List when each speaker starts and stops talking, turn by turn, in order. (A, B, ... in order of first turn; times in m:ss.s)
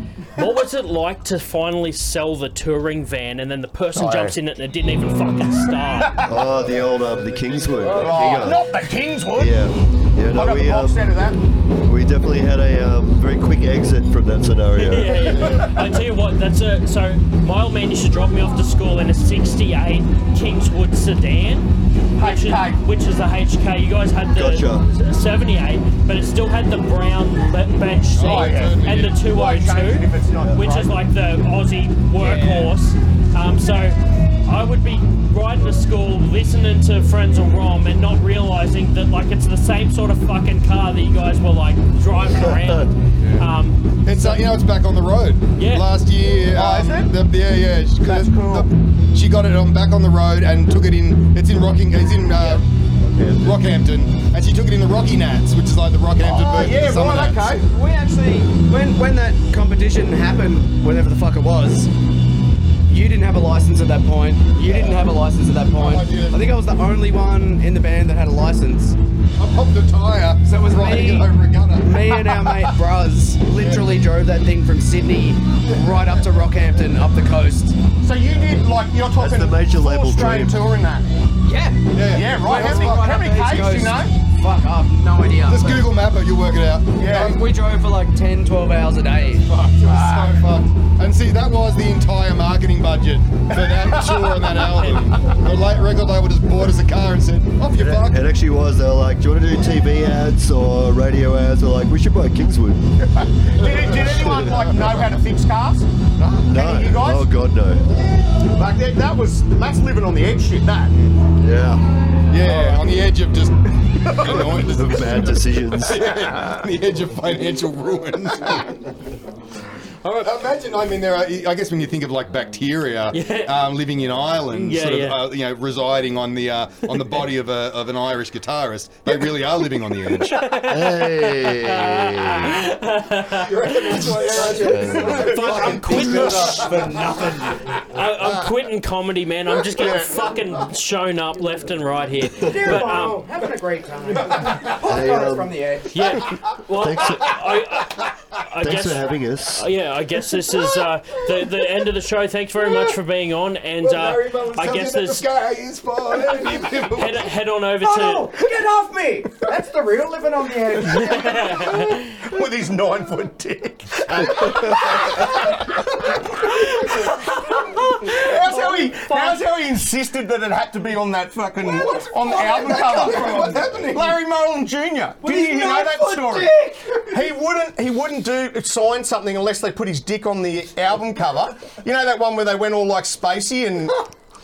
0:00.3-0:06.3 A
0:03.9-0:04.4 B
0:06.0-0:06.5 B
0:06.2-0:08.8 C
0:07.8-0:08.6 D
0:07.9-0:09.6 B
0:09.3-0:11.1 C
0:10.3-0:11.4 B
0:11.8-0:15.7 C
0:14.8-0:43.8 A
0:22.2-0:22.8 B
0:24.3-0:24.8 C
0:28.2-0:29.2 E
0:28.2-0:31.0 B
0:32.2-0:32.7 E
0:42.3-0:42.9 C
0:44.0-0:52.6 E
0:45.6-0:45.8 A
0:46.5-0:47.1 B
0:48.0-0:48.7 B
0:53.0-0:53.6 C
0:53.4-0:57.5 E
0:56.2-0:57.7 B
0:57.6-1:01.9 D
1:02.9-1:09.0 D
1:05.8-1:06.4 E
1:09.4-1:12.7 E
1:10.4-1:17.8 D
1:13.6-1:13.8 E
1:15.6-1:16.1 E
1:18.0-1:21.1 B
1:19.2-1:20.6 C
1:21.4-1:25.9 D
1:21.9-1:23.1 E
1:22.1-1:24.2 B
1:25.5-1:27.4 E
1:27.0-1:27.4 B
1:27.1-1:30.3 D
1:29.5-1:38.2 E
1:33.9-1:34.4 B
1:37.7-1:43.0 C
1:43.1-1:45.9 B
1:43.6-1:44.6 E
1:46.2-1:46.4 E
1:46.4-1:47.9 C
1:46.5-1:47.3 B
1:48.5-1:51.0 B
1:50.9-1:51.2 E
1:51.4-1:51.8 C
1:52.3-1:58.8 E
1:52.4-1:52.8 B
1:54.3-1:56.2 C
2:00.0-2:00.3 A
2:00.2-2:10.4 E
2:03.1-2:03.5 A
2:04.5-2:05.2 A
2:10.2-2:14.3 A
2:10.6-2:12.6 C
2:13.3-2:16.9 E
2:13.7-2:17.8 D
2:14.7-2:15.2 C
2:15.0-2:16.8 A
2:15.3-2:15.6 B
2:17.8-2:23.3 A
2:19.7-2:20.2 B
2:22.4-2:26.0 D
2:24.8-2:25.5 C
2:25.9-2:35.3 A
2:26.7-2:27.4 C
2:28.6-2:29.7 C
2:33.8-2:37.3 E
2:36.9-2:38.3 A
2:37.8-2:41.7 D
2:40.8-2:42.2 A
2:41.8-2:45.8 B
2:44.1-2:45.0 E
2:46.9-2:47.8 D
2:47.4-2:49.4 A
2:48.0-2:56.6 B
2:51.9-2:54.1 E
2:52.3-2:53.6 D
2:55.2-2:57.3 D
2:57.1-3:04.0 B